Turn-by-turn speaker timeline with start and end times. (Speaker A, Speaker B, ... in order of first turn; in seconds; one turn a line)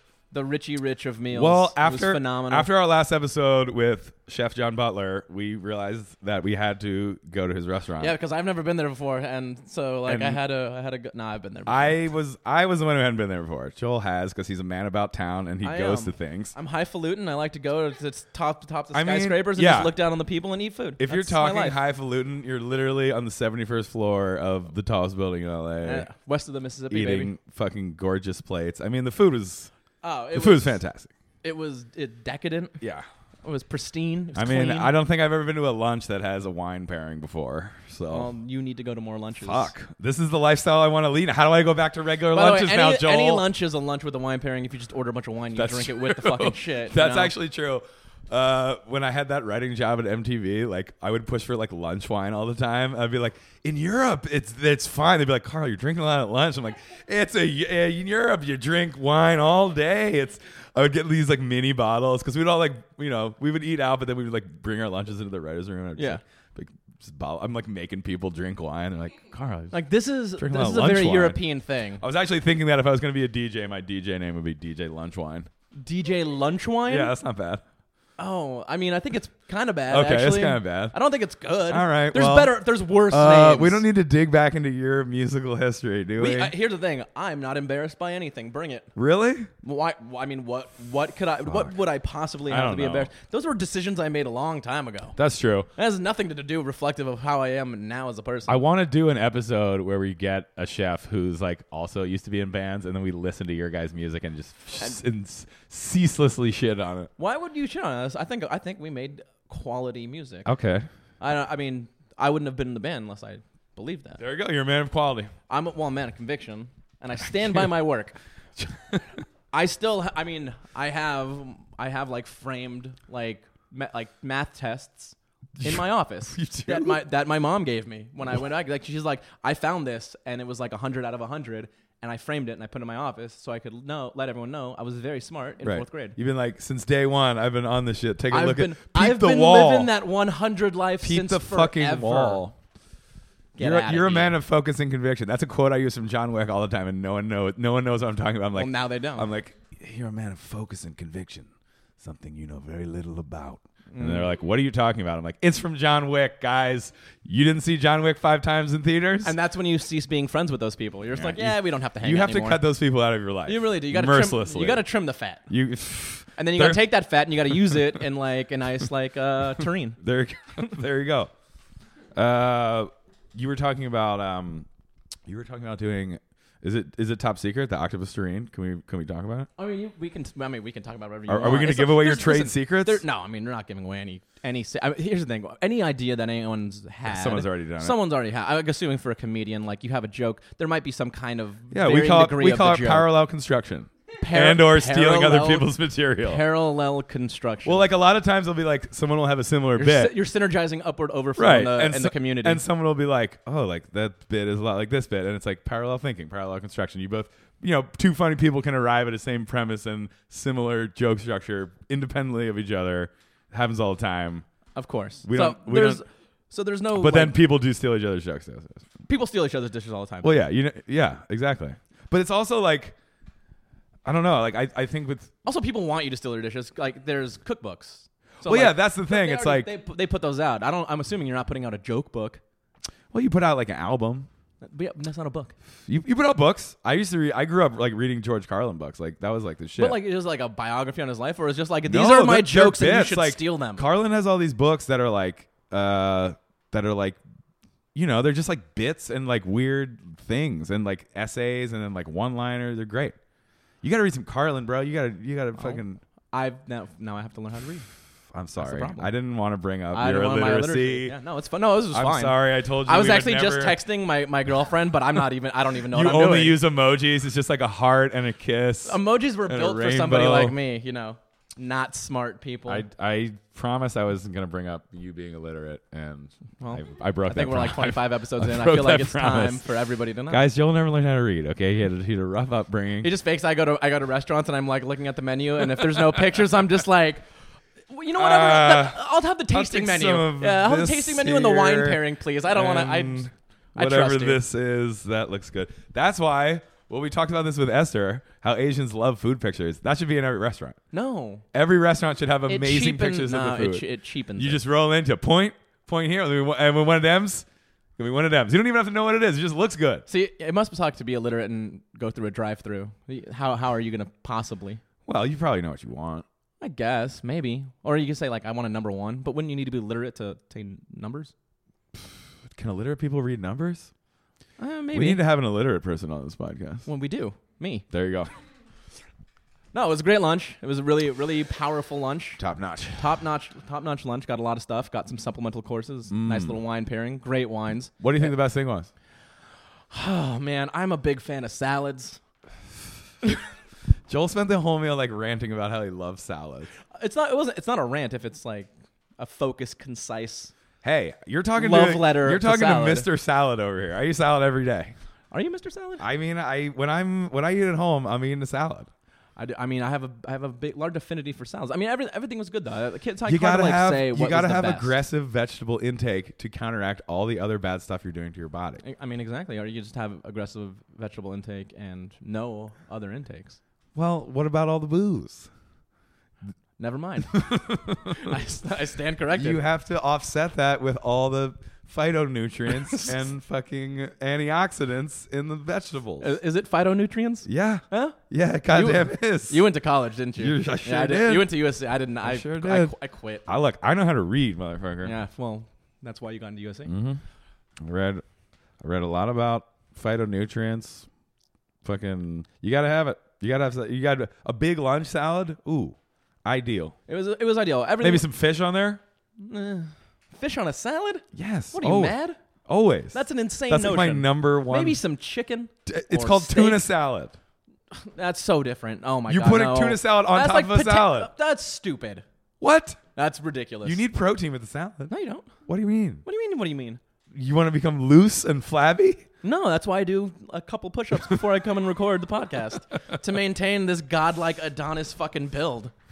Speaker A: 0.3-2.7
Speaker B: 1.3-8.2
Speaker A: 8.0-11.9
Speaker B: 10.1-10.4
Speaker B: 11.7-16.5
Speaker A: 15.6-21.8
Speaker B: 18.9-19.9
Speaker B: 21.0-26.1
Speaker A: 25.8-27.3
Speaker B: 26.9-29.7
Speaker A: 30.0-30.8
Speaker B: 30.3-31.1
Speaker A: 31.4-32.8
Speaker B: 32.8-33.1
Speaker A: 33.4-34.9
Speaker B: 34.3-38.3
Speaker A: 38.1-39.7
Speaker B: 39.4-43.5
Speaker A: 42.3-47.3
Speaker B: 45.5-69.8
Speaker A: 69.7-72.0
Speaker B: 70.4-71.4
Speaker B: 72.0-75.5
Speaker A: 75.7-77.1
Speaker B: 76.9-77.6
Speaker A: 78.2-83.8
Speaker B: 79.9-81.0
Speaker B: 81.7-86.5
Speaker A: 86.2-88.9
Speaker B: 89.0-89.5
Speaker A: 89.6-95.2
Speaker B: 91.5-91.7
Speaker B: 92.5-93.1
Speaker B: 95.2-95.7
Speaker A: 95.8-98.6
Speaker B: 98.5-107.1
Speaker A: 107.2-110.5
Speaker B: 110.4-110.9
Speaker A: 111.2-114.2
Speaker B: 114.2-115.3
Speaker A: 115.5-118.2
Speaker B: 118.6-119.2
Speaker A: 119.5-136.2
Speaker B: 125.6-127.0
Speaker B: 135.6-139.9
Speaker A: 138.3-142.4
Speaker B: 141.0-142.5
Speaker A: 143.6-144.3
Speaker B: 143.6-151.5
Speaker A: 148.5-149.3
Speaker B: 152.0-159.3
Speaker A: 153.9-154.3
Speaker A: 159.2-162.6
Speaker B: 161.2-164.8
Speaker A: 163.4-165.4
Speaker B: 165.5-166.8
Speaker A: 166.3-170.0
Speaker B: 170.0-171.3
Speaker B: 172.1-174.7
Speaker B: 175.2-179.5
Speaker A: 179.6-193.1
Speaker B: 181.3-183.0
Speaker B: 187.1-188.0
Speaker B: 191.7-196.4
Speaker A: 194.2-197.9
Speaker B: 197.6-200.1
Speaker A: 199.8-202.6
Speaker B: 201.4-214.5
Speaker A: 214.8-217.4
Speaker B: 215.2-216.0
Speaker B: 216.9-218.9
Speaker A: 219.1-220.4
Speaker B: 220.2-222.9
Speaker B: 224.0-225.3
Speaker A: 225.4-232.4
Speaker B: 228.4-229.7
Speaker B: 233.1-234.3
Speaker A: 234.6-235.5
Speaker B: 235.9-240.0
Speaker A: 239.8-243.8
Speaker B: 241.8-247.2
Speaker B: 247.9-253.2
Speaker B: 253.8-256.0
Speaker A: 255.5-257.9
Speaker B: 258.3-261.2
Speaker A: 258.6-259.1
Speaker A: 259.9-266.6
Speaker B: 261.9-263.8
Speaker B: 265.9-270.6
Speaker A: 268.8-272.8
Speaker B: 272.7-279.6
Speaker A: 276.6-280.4
Speaker B: 280.3-283.1
Speaker A: 283.0-287.2
Speaker A: 287.9-294.4
Speaker B: 288.1-300.8
Speaker A: 300.9-301.4
Speaker B: 301.5-307.4
Speaker A: 302.5-304.6
Speaker B: 308.0-310.0
Speaker A: 310.1-314.8
Speaker B: 315.1-316.2
Speaker A: 316.6-321.3
Speaker B: 322.5-323.9
Speaker A: 324.6-325.2
Speaker B: 324.9-326.9
Speaker A: 326.9-327.9
Speaker B: 327.9-328.3
Speaker A: 329.7-332.4
Speaker B: 332.4-333.1
Speaker A: 332.9-338.3
Speaker B: 336.1-336.6
Speaker B: 338.0-338.9
Speaker A: 339.9-342.2
Speaker B: 344.1-346.7
Speaker A: 346.9-350.5
Speaker B: 350.8-354.9
Speaker A: 351.6-353.1
Speaker A: 355.3-356.1
Speaker B: 356.0-358.9
Speaker A: 359.4-364.9
Speaker B: 363.2-368.8
Speaker A: 368.8-373.6
Speaker B: 373.9-375.5
Speaker A: 376.8-379.6
Speaker B: 377.3-378.4
Speaker B: 379.3-386.3
Speaker A: 386.2-388.2
Speaker B: 387.4-389.6
Speaker A: 388.7-393.5
Speaker B: 390.4-391.5
Speaker B: 392.2-392.9
Speaker B: 393.4-395.1
Speaker A: 395.0-396.9
Speaker B: 396.9-397.2
Speaker B: 397.8-398.2
Speaker B: 398.8-401.1
Speaker B: 401.8-406.9
Speaker A: 407.1-408.3
Speaker B: 408.0-409.0
Speaker A: 409.4-412.4
Speaker B: 411.3-415.0
Speaker A: 413.1-416.8
Speaker B: 415.9-417.4
Speaker A: 417.9-422.2
Speaker B: 419.3-421.3
Speaker B: 422.6-423.0
Speaker A: 423.1-424.0
Speaker B: 423.8-425.1
Speaker A: 425.1-425.5
Speaker B: 425.7-426.2
Speaker A: 426.2-427.0
Speaker B: 427.3-429.2
Speaker A: 429.4-435.9